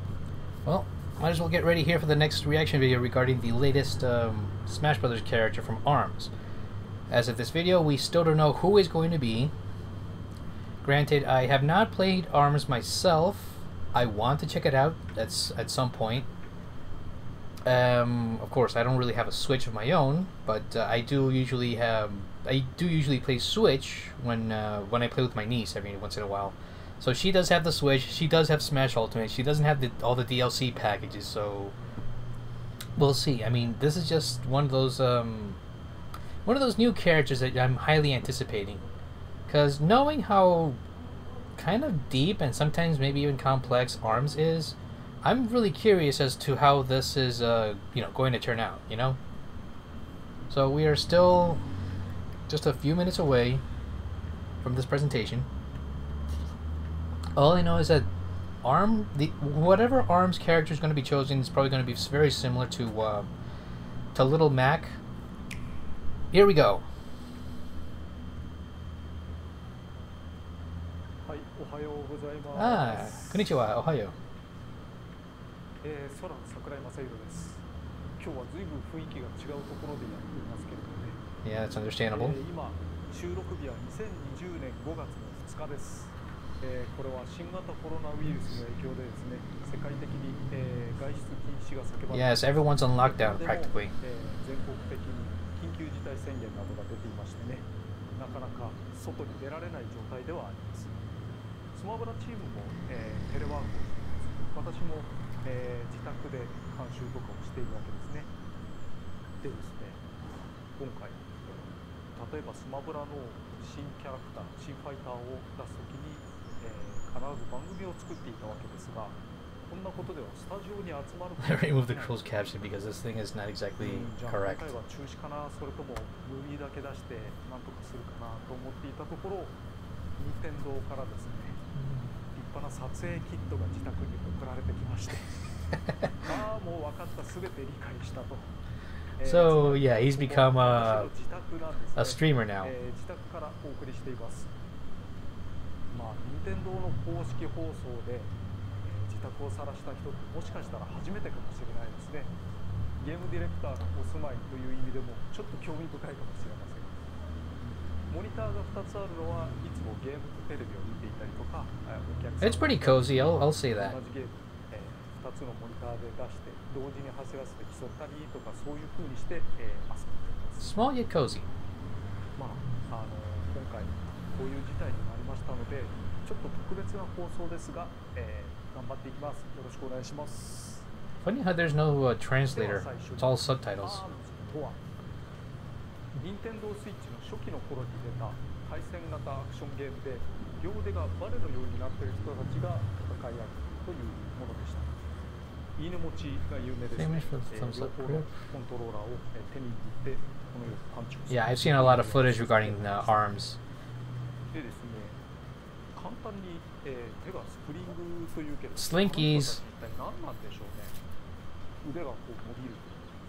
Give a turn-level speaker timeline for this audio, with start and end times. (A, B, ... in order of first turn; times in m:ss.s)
0:00.6-0:06.3 A
0:07.1-0:09.5 A
0:10.8-0:16.2 A
0:17.6-0:31.7 A
0:33.0-0:35.6 A
0:36.4-0:38.8 A
0:39.5-0:40.8 A
0:41.6-0:49.2 A
0:50.5-0:51.6 A
0:52.5-0:53.6 A
0:54.6-0:55.5 A
0:57.4-0:58.1 A
0:58.6-1:03.3 A
1:04.1-1:05.0 A
1:06.3-1:06.8 A
1:11.2-1:13.5 B
1:12.5-1:14.1 A
1:15.8-1:17.6 B
1:18.2-1:21.2 B
1:21.4-1:22.4 A
1:22.1-1:40.9 B
1:32.1-1:33.9 A
1:41.7-1:48.3 B
1:49.4-1:50.0 B
1:50.8-1:51.2 B
1:52.1-2:02.2 B
2:01.4-2:04.7 A
2:03.8-2:09.6 B
2:10.2-2:11.6 B
2:12.3-2:15.3 B
2:16.2-2:18.5 B
2:19.2-2:24.5 B
2:19.2-2:21.1 A
2:22.0-2:22.7 A
2:25.9-2:32.3 B
2:33.0-2:37.0 B
2:38.1-2:50.7 B
2:42.4-2:44.0 A
2:50.6-2:51.5 A
2:52.4-3:00.8 B
3:01.2-3:04.0 A
3:02.5-3:04.8 B
3:06.1-3:15.0 B
3:15.8-3:23.4 B
3:17.0-3:18.3 A
3:21.3-3:23.6 A
3:24.5-3:25.2 B
3:25.9-3:31.0 B
3:28.8-3:29.6 A
3:31.8-3:33.0 B